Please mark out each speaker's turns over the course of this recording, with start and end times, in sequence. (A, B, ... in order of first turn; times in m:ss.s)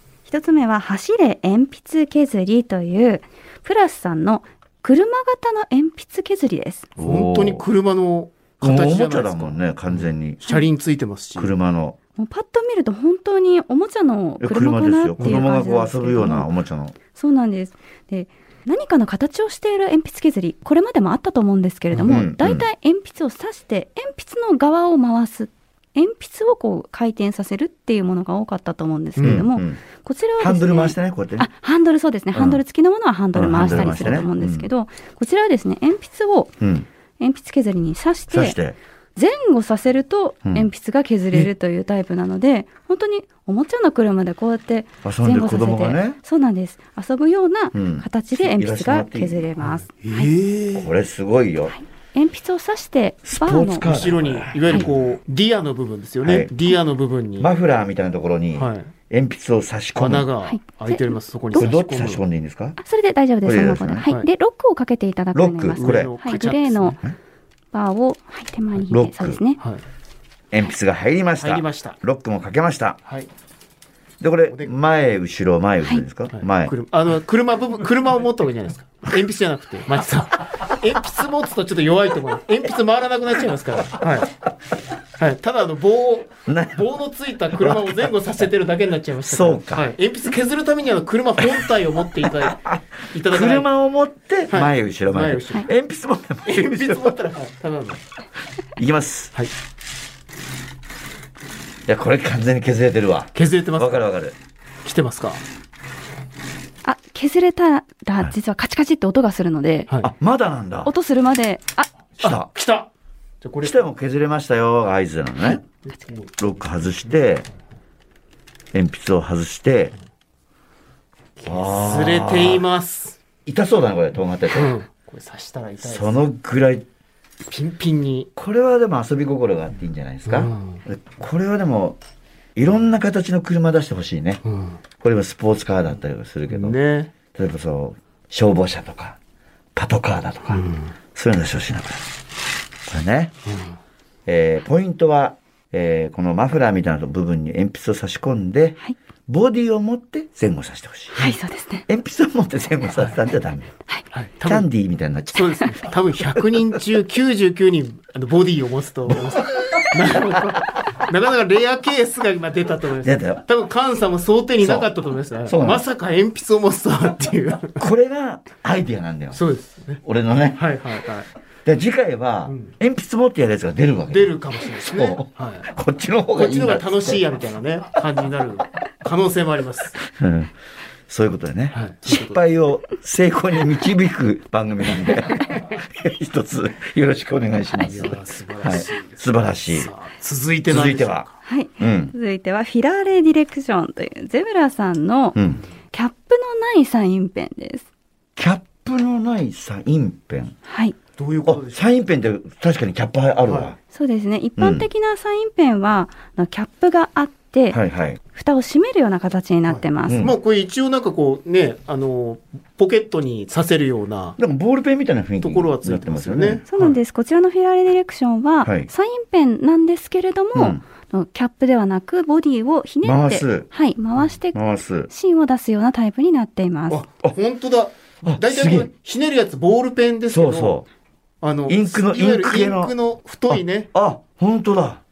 0:00.3-0:06.9 A
0:07.0-0:07.6 B
0:07.0-0:11.6 C
0:08.6-0:10.4 B
0:11.4-0:12.0 B
0:12.2-0:16.5 A
0:14.4-0:17.0 B
0:15.2-0:15.4 C
0:17.1-0:36.5 A
0:21.9-0:22.2 C
0:22.1-0:22.7 B
0:29.2-0:29.5 C
0:29.2-0:29.8 B
0:30.4-0:31.5 B
0:32.3-0:32.6 B
0:33.3-0:34.7 B
0:33.8-0:34.0 C
0:36.6-0:36.9 B
0:37.2-0:38.6 A
0:38.3-0:38.8 B
0:39.2-0:50.3 A
0:45.0-0:46.2 B
0:47.7-0:49.4 B
0:49.6-0:50.9 C
0:50.8-0:51.8 B
0:51.7-0:53.9 A
0:53.3-0:55.0 B
0:53.8-0:57.5 C
0:56.2-0:56.5 B
0:57.4-1:00.3 B
0:58.6-0:58.9 C
1:00.0-1:02.2 C
1:00.4-1:01.7 A
1:01.5-1:02.8 B
1:02.8-1:07.0 A
1:03.4-1:04.1 B
1:05.3-1:06.1 B
1:05.8-1:07.0 C
1:07.7-1:09.6 A
1:08.8-1:09.4 B
1:10.5-1:13.0 B
1:11.4-1:12.0 C
1:14.2-1:16.7 B
1:14.5-1:14.7 C
1:16.3-1:24.3 C
1:25.2-1:33.7 C
1:26.5-1:26.8 B
1:27.6-1:28.1 B
1:29.2-1:29.9 B
1:31.4-1:31.7 B
1:32.2-1:37.2 B
1:34.5-1:35.7 C
1:36.5-1:38.0 C
1:38.8-1:39.3 B
1:41.9-1:44.4 B
1:43.4-1:44.0 C
1:44.8-1:45.4 C
1:46.8-1:49.9 A
1:50.0-1:50.9 B
1:50.8-1:51.9 A
1:52.2-1:52.5 B
1:52.2-1:52.9 C
1:53.4-1:53.8 C
1:53.6-1:55.6 B
1:55.6-1:56.6 C
1:56.4-1:57.5 B
1:58.7-1:59.9 B
2:01.4-2:03.2 C
2:01.4-2:02.6 B
2:03.5-2:04.7 B
2:04.5-2:06.2 C
2:05.8-2:06.9 B
2:07.5-2:08.3 C
2:08.4-2:12.0 B
2:10.3-2:10.8 C
2:12.6-2:14.4 B
2:14.4-2:14.8 C
2:15.0-2:16.8 B
2:16.5-2:17.1 C
2:17.3-2:19.2 B
2:19.8-2:22.1 B
2:20.5-2:20.9 C
2:22.9-2:23.3 B
2:23.5-2:23.7 C
2:24.3-2:31.3 B
2:31.2-2:31.9 A
2:31.9-2:33.7 B
2:34.1-2:34.7 C
2:34.4-2:35.7 B
2:35.3-2:47.8 C
2:43.0-2:43.4 B
2:44.6-2:44.9 B
2:45.5-2:45.8 B
2:47.8-2:49.4 B
2:49.3-2:50.0 C
2:50.0-2:50.6 B
2:50.6-2:51.3 C
2:51.6-2:57.2 B
2:52.5-2:52.7 C
2:54.1-2:55.7 C
2:56.4-3:00.0 C
3:00.0-3:00.5 B
3:01.1-3:09.9 B
3:01.7-3:02.4 C
3:07.8-3:11.4 C
3:10.7-3:11.3 B
3:11.4-3:15.4 A
3:11.8-3:12.1 B
3:15.4-3:15.6 B
3:15.9-3:17.9 A
3:18.4-3:20.6 B
3:20.7-3:21.0 A
3:21.2-3:21.9 C
3:21.4-3:23.8 B
3:23.4-3:23.8 C
3:23.9-3:27.8 A
3:24.6-3:24.9 B
3:27.7-3:28.2 B
3:28.3-3:30.2 A
3:29.7-3:34.4 C
3:30.1-3:30.4 B
3:34.4-3:36.6 B
3:35.4-3:37.0 C
3:36.7-3:47.0 A
3:38.6-3:38.9 B
3:40.5-3:40.8 B
3:43.0-3:43.7 B
3:44.5-3:45.1 B
3:46.9-3:50.8 C
3:48.2-3:48.9 B
3:50.3-3:50.9 B
3:51.4-3:53.9 C
3:51.7-3:52.9 B
3:53.5-3:55.0 B